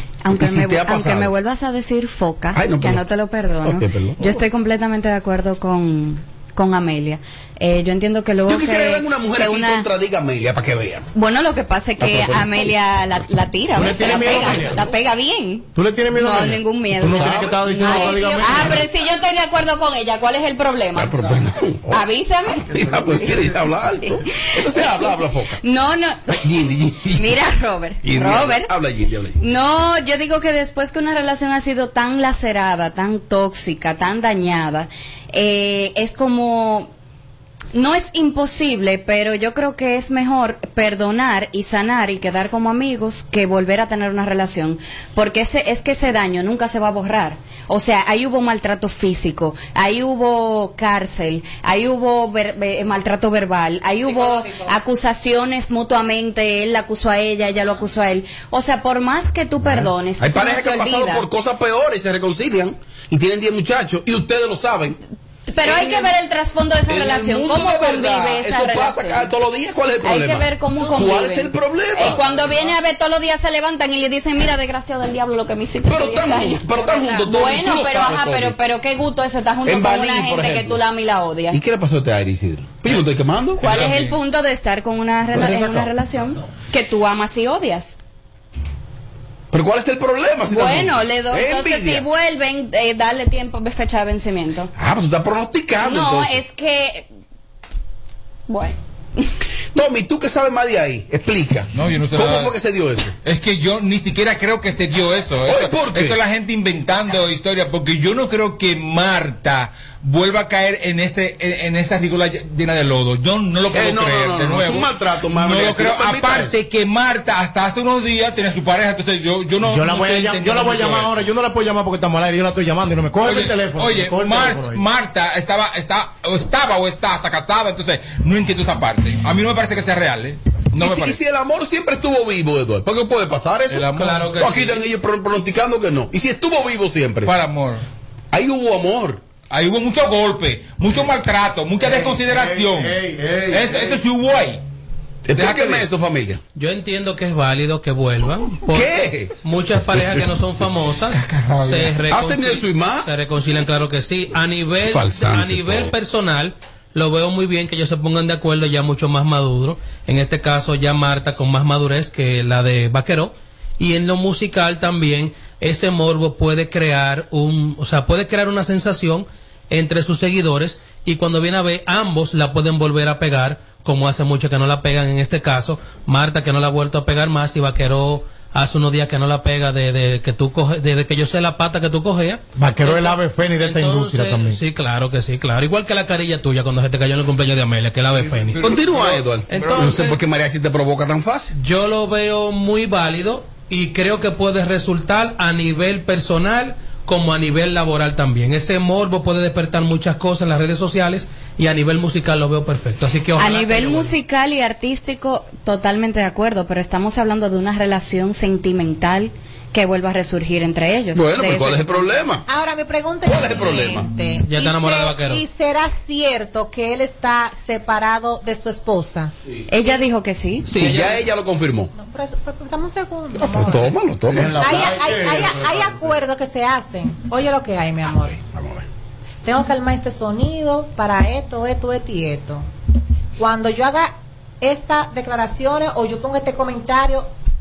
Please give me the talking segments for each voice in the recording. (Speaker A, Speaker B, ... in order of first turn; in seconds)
Speaker A: 0.2-9.9, 11.1-21.3, 21.9-23.4, 24.0-26.4, 27.1-28.7, 29.4-36.9, 37.7-61.2, 65.5-69.3, 70.0-81.6, 83.6-88.0, 90.5-94.7, 95.8-97.1, 98.5-99.3, 203.3-212.3, 219.7-220.8
Speaker B: 0.3-1.3, 2.5-3.0, 3.6-4.4, 8.4-11.1, 17.0-18.6, 20.9-22.0, 22.7-25.6, 26.3-27.4, 28.0-29.4, 59.6-65.0, 65.6-66.1, 66.9-72.4, 75.8-78.5, 79.6-80.8, 81.5-83.7, 85.3-85.9, 89.5-92.0, 94.8-96.4, 99.7-103.1, 105.5-106.2, 113.7-116.5, 130.8-137.3, 138.3-139.2, 145.2-146.4, 148.7-149.3, 149.9-150.2, 152.1-153.1, 154.8-155.9, 188.6-191.5, 211.1-212.4, 213.2-214.1, 220.7-221.9, 223.4-224.8, 228.3-228.8
Speaker C: 12.0-12.4, 13.7-14.9, 15.7-18.9, 119.6-124.8, 141.8-144.0, 182.6-184.6, 224.3-226.2
Speaker D: 54.0-54.8, 76.9-77.2, 212.4-219.3, 221.9-223.9, 224.6-228.4, 229.4-232.6, 233.4-237.3
Speaker E: 83.6-84.2, 101.7-102.5, 103.2-121.2, 123.2-131.2, 133.7-134.3, 137.2-137.8, 139.5-142.9, 143.5-144.6, 145.3-145.8, 151.1-151.9, 188.1-190.0
Speaker F: 133.9-134.8, 146.6-188.7, 189.5-190.2, 191.5-204.2, 214.4-215.4, 220.7-221.2